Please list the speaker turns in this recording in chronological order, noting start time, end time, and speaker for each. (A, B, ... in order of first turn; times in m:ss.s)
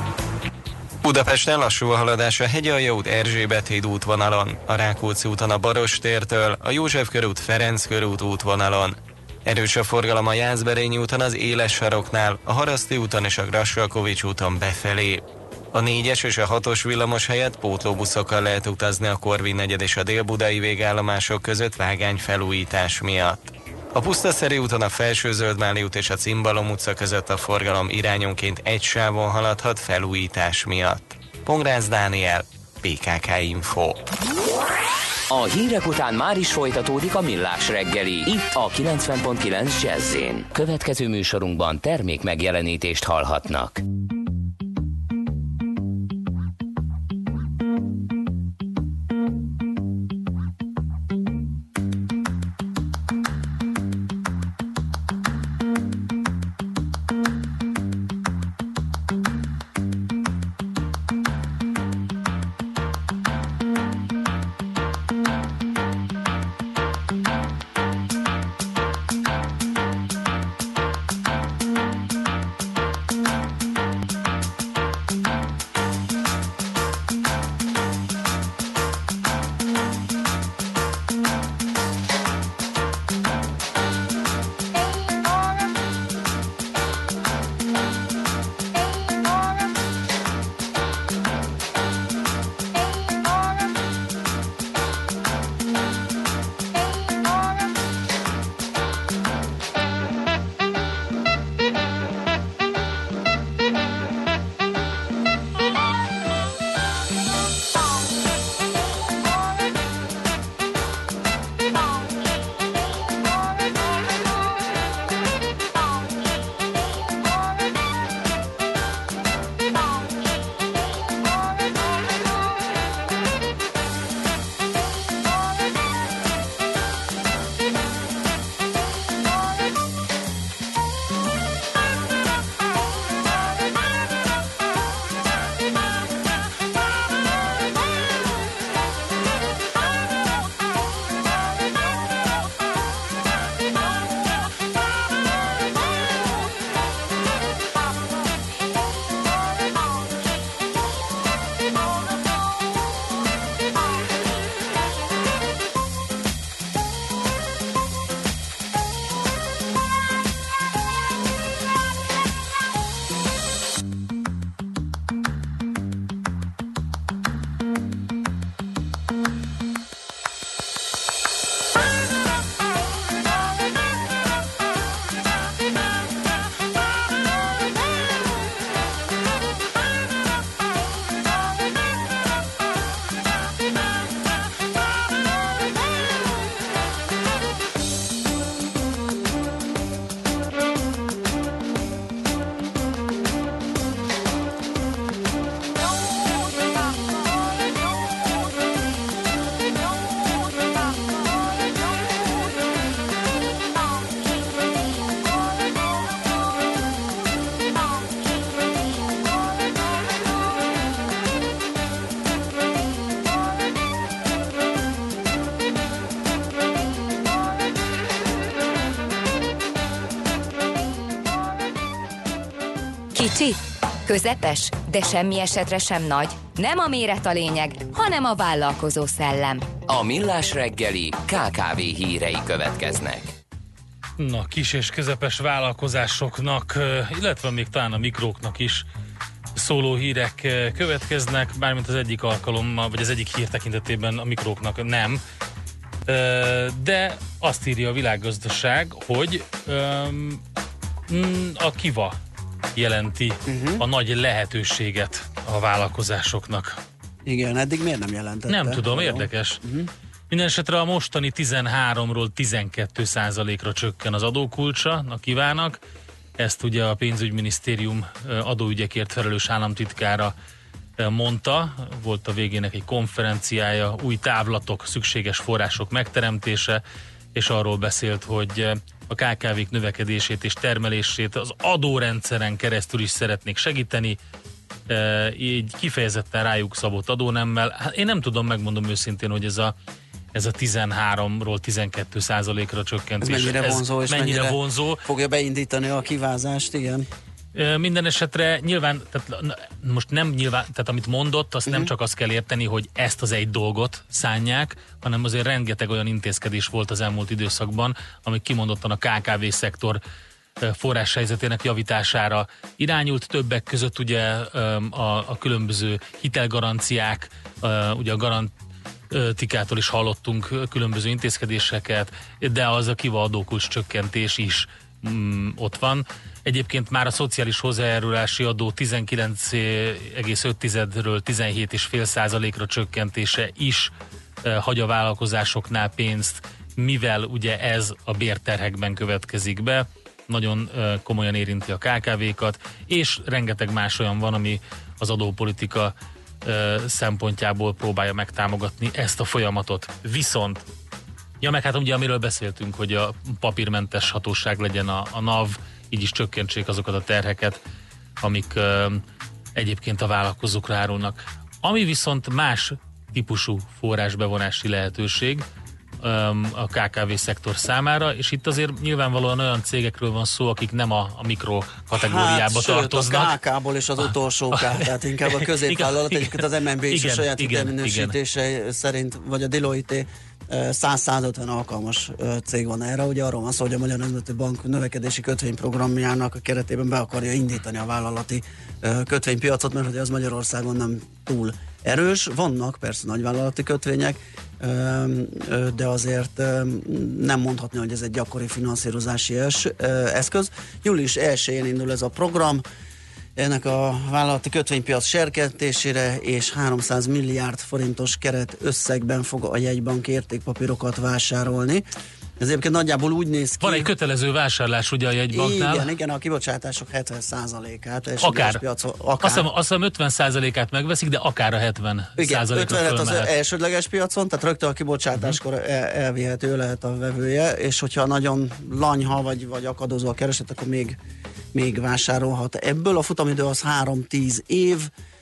0:01.0-0:34.0 A
0:35.3-0:43.8 B
3:43.1-3:49.7 C
3:49.9-3:53.3 B
3:54.2-3:58.9 D
3:59.6-4:05.2 D
4:06.1-4:10.4 D
4:11.1-4:12.2 D
4:12.8-4:16.8 D
4:13.5-4:13.8 E
4:17.2-4:19.9 E
4:18.5-4:19.6 D
4:20.3-4:25.8 D
4:26.4-4:30.3 D
4:31.0-4:36.8 D
4:37.4-4:44.2 D
4:44.9-4:49.7 D
4:50.3-4:55.0 D
4:53.2-4:57.0 E
4:57.6-5:10.0 D
5:10.6-5:18.5 D
5:19.1-5:33.9 D
5:34.4-5:50.6 D
5:51.4-5:57.6 D
5:58.2-5:59.0 D
5:59.6-6:05.4 D
6:06.0-6:13.4 D
6:11.9-6:42.6 E
6:14.0-6:18.2 D
6:43.4-6:51.8 E
6:52.4-6:53.9 E
6:53.6-6:55.9 D
6:55.3-6:59.5 E
6:58.2-6:58.6 D
6:59.2-7:03.3 D
7:02.2-7:11.0 E
7:11.5-7:14.9 E